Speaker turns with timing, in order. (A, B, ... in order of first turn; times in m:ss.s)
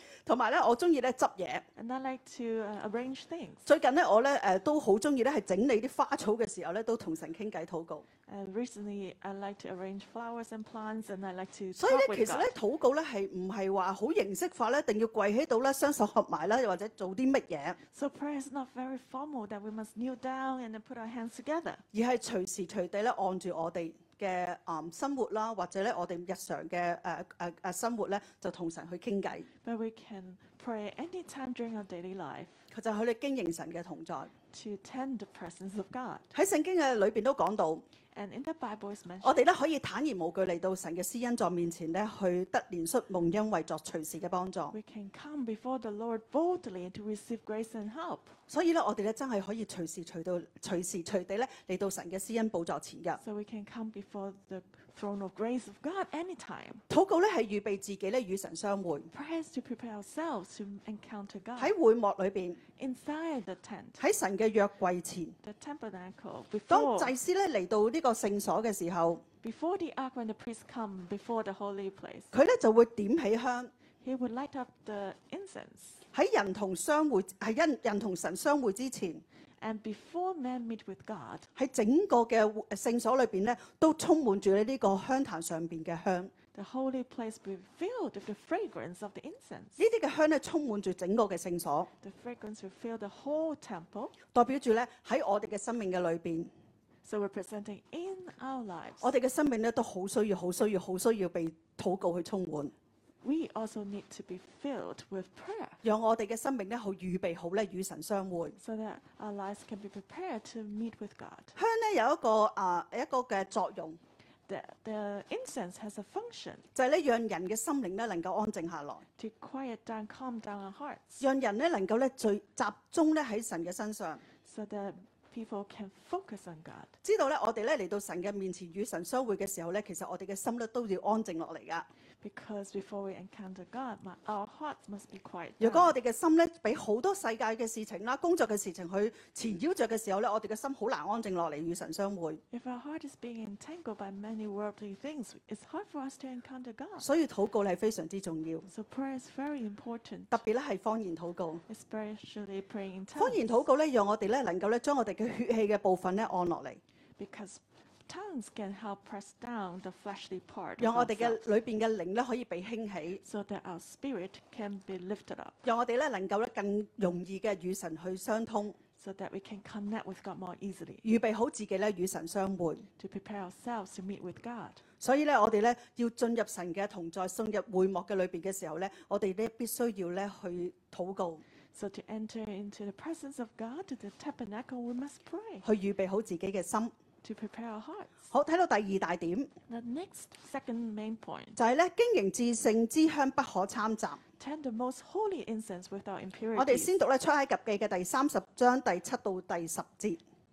0:00.2-0:01.6 A
0:01.8-0:03.6 B
0:03.6-0:08.0 A
0:08.3-0:12.5 B
0:11.8-0:17.8 A
0:17.9-0:21.8 B
0:21.9-0:29.5 A
0:29.6-0:32.6 B
0:32.7-0:34.3 A
0:34.5-0:36.3 B
0:36.3-0:37.8 A
0:38.1-0:39.4 B
0:39.2-0:44.8 A
0:44.7-0:48.3 B
0:48.5-0:53.2 A
0:53.2-0:56.8 B
0:56.9-0:59.1 A
0:59.1-1:01.7 B
1:01.6-1:02.6 A
1:02.8-1:04.0 B
1:04.0-1:05.4 A
1:05.4-1:07.1 B
1:06.7-1:09.2 A
1:09.4-1:12.3 B
1:12.3-1:13.7 A
1:14.0-1:16.0 B
1:16.1-1:19.2 A
1:19.6-1:21.5 B
1:21.6-1:26.3 A
1:26.5-1:29.8 B
1:29.8-1:31.9 A
1:32.0-1:34.2 B
1:34.3-1:36.5 A
1:37.0-1:39.1 B
1:39.0-1:42.7 A
1:43.2-1:45.8 B
1:45.8-1:48.6 A
1:48.6-1:51.5 B
1:51.5-1:54.0 A
1:54.5-1:56.6 B
1:56.7-1:59.0 A
1:59.2-2:01.2 B
2:01.2-2:04.2 A
2:04.4-2:07.0 B
2:07.0-2:11.9 A
2:12.2-2:15.9 B
2:15.6-2:22.4 A
2:22.5-2:27.1 B
2:27.0-2:28.7 A
2:28.7-2:30.4 B
2:30.3-2:31.6 A
2:31.7-2:33.5 B
2:33.2-2:36.8 A
2:37.2-2:41.4 B
2:40.8-2:43.2 A
2:43.2-2:45.6 B
2:45.6-2:48.8 A
2:49.0-2:51.0 B
2:51.0-2:52.8 A
2:53.0-2:54.8 B
2:55.0-3:01.4 A
3:01.7-3:05.6 B
3:05.6-3:06.9 A
3:07.2-3:08.2 B
3:08.3-3:09.5 A
3:09.7-3:11.6 B
3:11.6-3:14.2 A
3:14.4-3:16.9 B
3:16.6-3:20.2 A